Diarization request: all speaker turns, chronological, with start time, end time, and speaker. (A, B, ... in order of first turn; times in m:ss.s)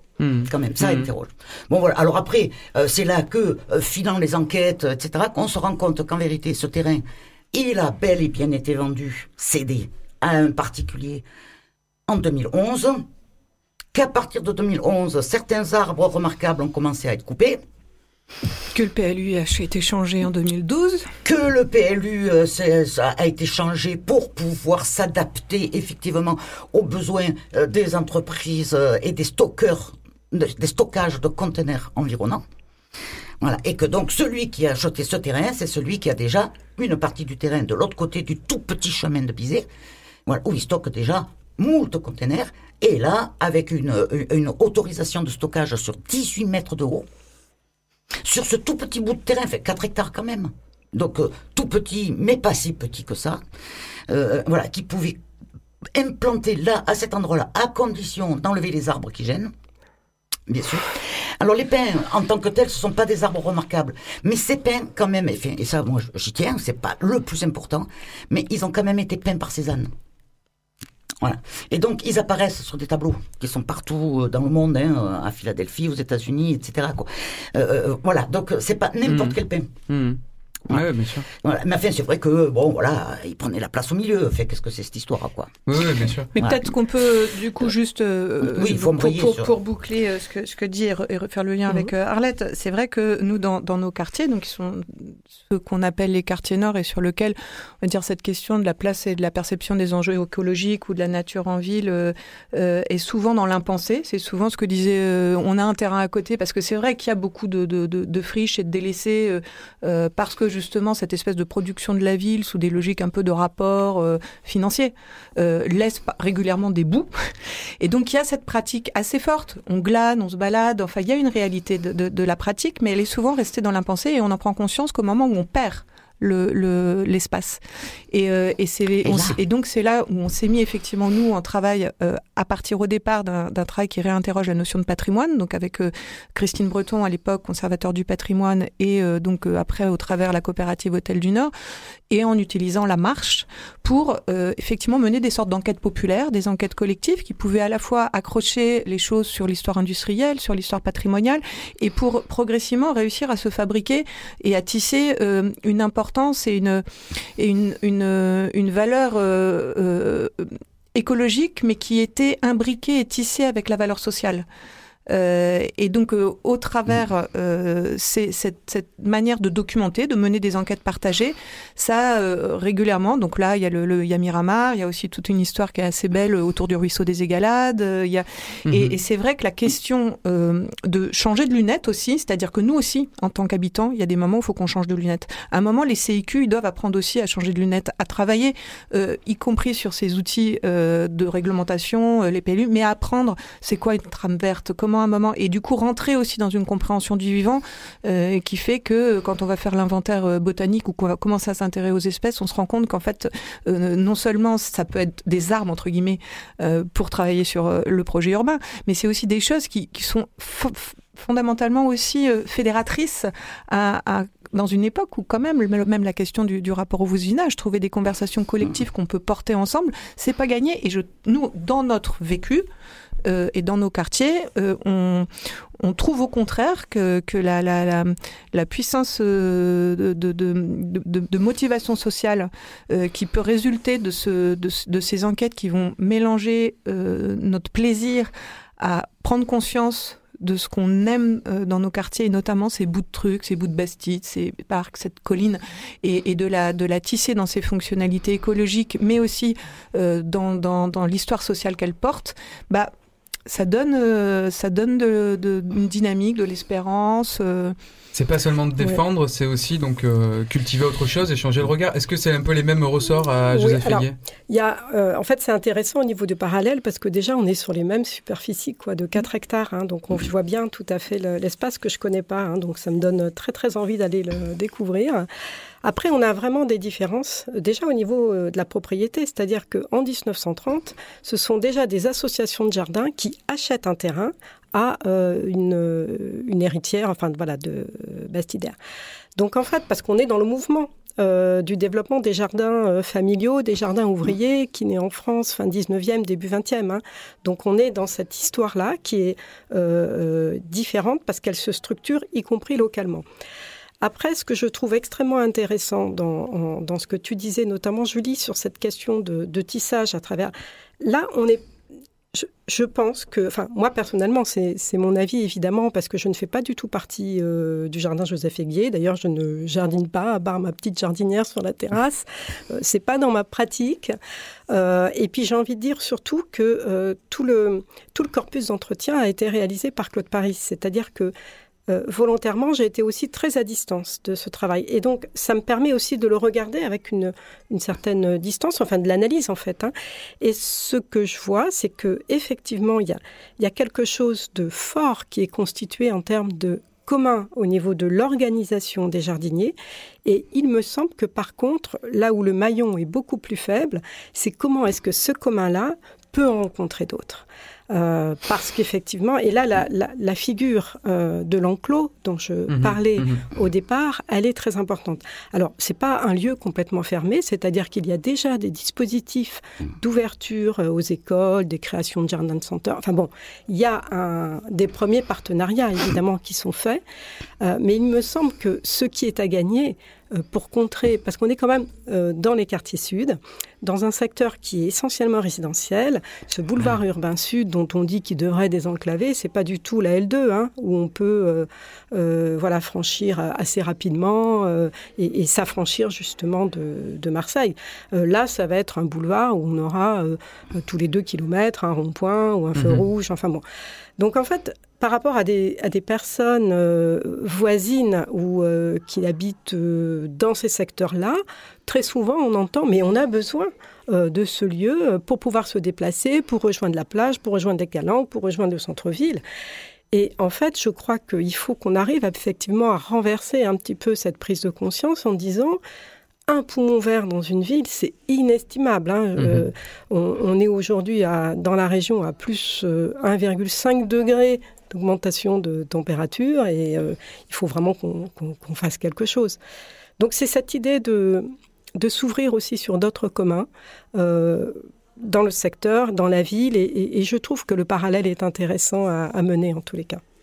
0:00.2-0:01.1 A
0:00.4-0:11.2 B
0:12.1-0:13.0 B
0:13.9-0:17.6 B
0:18.7-0:21.1 C
0:21.2-0:32.4 B
0:33.4-0:39.7 B
0:40.2-0:47.1 B
0:48.2-0:53.4 B
0:54.1-0:55.2 B
0:55.9-0:59.5 B
1:00.5-1:09.9 B
1:11.2-1:19.7 B
1:19.0-1:21.3 A
1:21.4-1:25.8 B
1:25.6-1:26.3 A
1:26.3-1:26.7 B
1:26.3-1:57.1 C
1:28.4-1:29.5 B
1:57.8-2:21.5 C
2:09.0-2:09.4 B
2:22.1-2:36.8 C
2:37.4-2:44.4 C
2:45.1-3:42.6 C
2:58.7-2:59.0 A
3:43.2-3:45.3 C
3:45.8-4:12.9 C
4:13.5-4:17.7 C
4:18.1-4:24.1 A
4:23.5-4:35.3 D
4:35.8-4:48.8 D
4:49.4-5:03.2 D
5:04.0-5:11.6 D
5:12.3-5:24.2 D
5:24.7-5:31.3 D
5:31.9-6:17.0 D
6:02.7-6:03.4 A
6:17.6-6:43.6 D
6:42.7-6:43.0 A
6:44.2-6:59.4 D
7:00.1-7:05.8 D
7:06.5-7:19.6 D
7:20.2-7:30.2 D